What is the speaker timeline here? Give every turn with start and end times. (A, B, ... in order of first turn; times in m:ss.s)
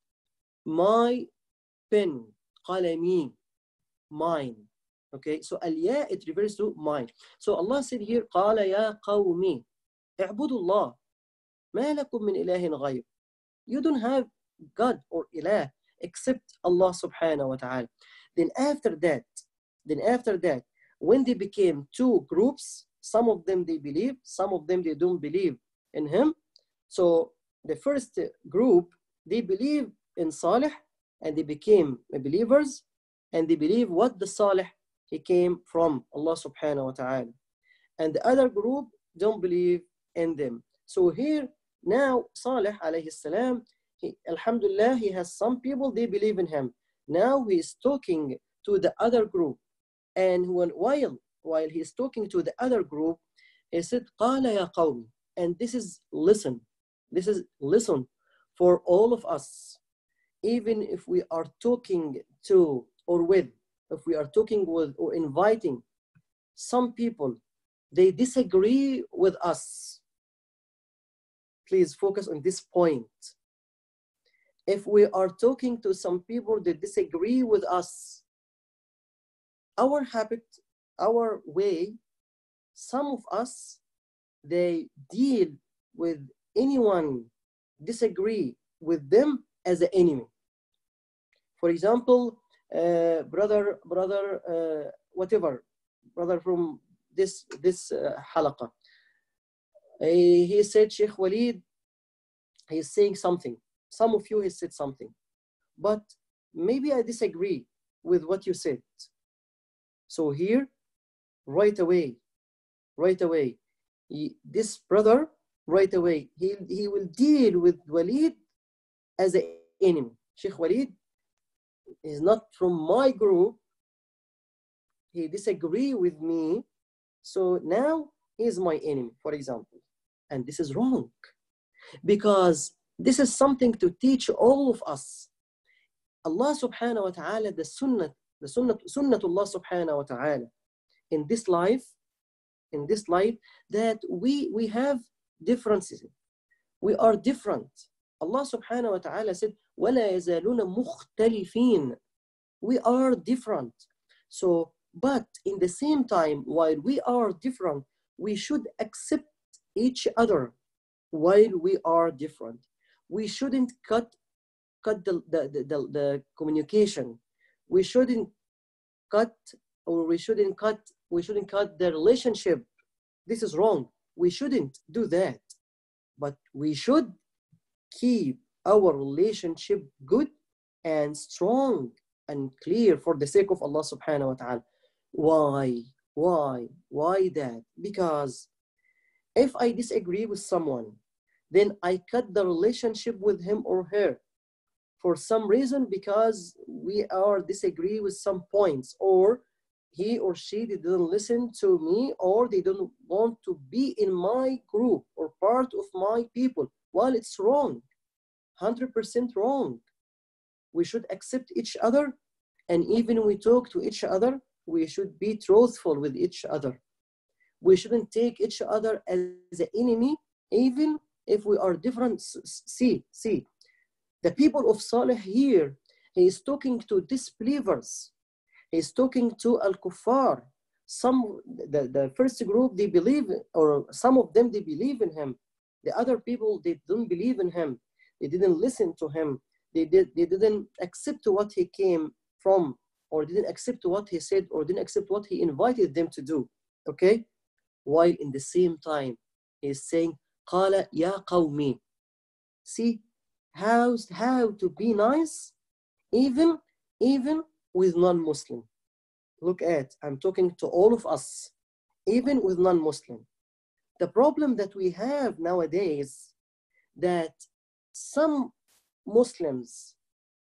0:00.7-0:01.3 A
0:01.9-0:03.4 A
0:04.1-0:09.6 A
0:10.2-0:11.0 A
0:11.7-0:13.0 A
0:13.7-0:26.4 A
0:26.9-0:32.8 A
0:33.3-0:37.3 A
0:38.0-0:49.6 A
0:50.2-0:53.2 A
0:53.7-0:59.8 A
1:00.4-1:05.8 A
1:06.6-1:07.4 A
1:07.9-1:10.0 A
1:11.7-1:13.3 A
1:14.7-1:18.2 A
1:19.8-1:22.0 A
1:22.8-1:23.8 A
1:24.4-1:27.3 A
1:27.8-1:30.3 A
1:31.6-1:35.6 A
1:36.2-1:38.7 A
1:40.0-1:41.6 A
1:42.7-1:45.1 A
1:45.8-1:49.1 A
1:50.1-1:50.7 A
1:51.5-1:52.2 A
1:53.0-1:53.6 A
1:54.1-1:58.4 A
1:59.2-2:00.9 A
2:02.0-2:03.6 A
2:05.1-2:06.6 A
2:07.2-2:09.8 A
2:10.3-2:11.3 A
2:12.0-2:15.3 A
2:16.2-2:20.5 A
2:21.1-2:21.9 A
2:22.7-2:26.1 A
2:26.8-2:32.0 A
2:32.6-2:33.8 A
2:34.3-2:40.5 A
2:41.1-2:44.1 A
2:44.8-2:47.2 A
2:47.7-2:48.3 A
2:49.1-2:52.7 A
2:53.3-2:55.5 A
2:56.2-2:57.2 A
2:57.9-3:00.3 A
3:00.8-3:04.6 A
3:05.1-3:08.5 A
3:09.4-3:11.0 A
3:11.5-3:14.2 A
3:15.0-3:19.4 A
3:19.9-3:27.8 A
3:28.6-3:29.8 A
3:30.7-3:32.1 A
3:32.7-3:36.8 A
3:37.6-3:43.4 A
3:44.2-3:48.1 A
3:48.7-4:07.2 A
4:07.9-4:11.8 A
4:12.7-4:13.0 A
4:13.5-4:15.5 A
4:16.1-4:18.7 A
4:19.4-4:21.5 A
4:22.1-4:23.2 A
4:24.0-4:26.3 A
4:27.0-4:27.4 A
4:27.9-4:28.5 A
4:29.1-4:30.0 A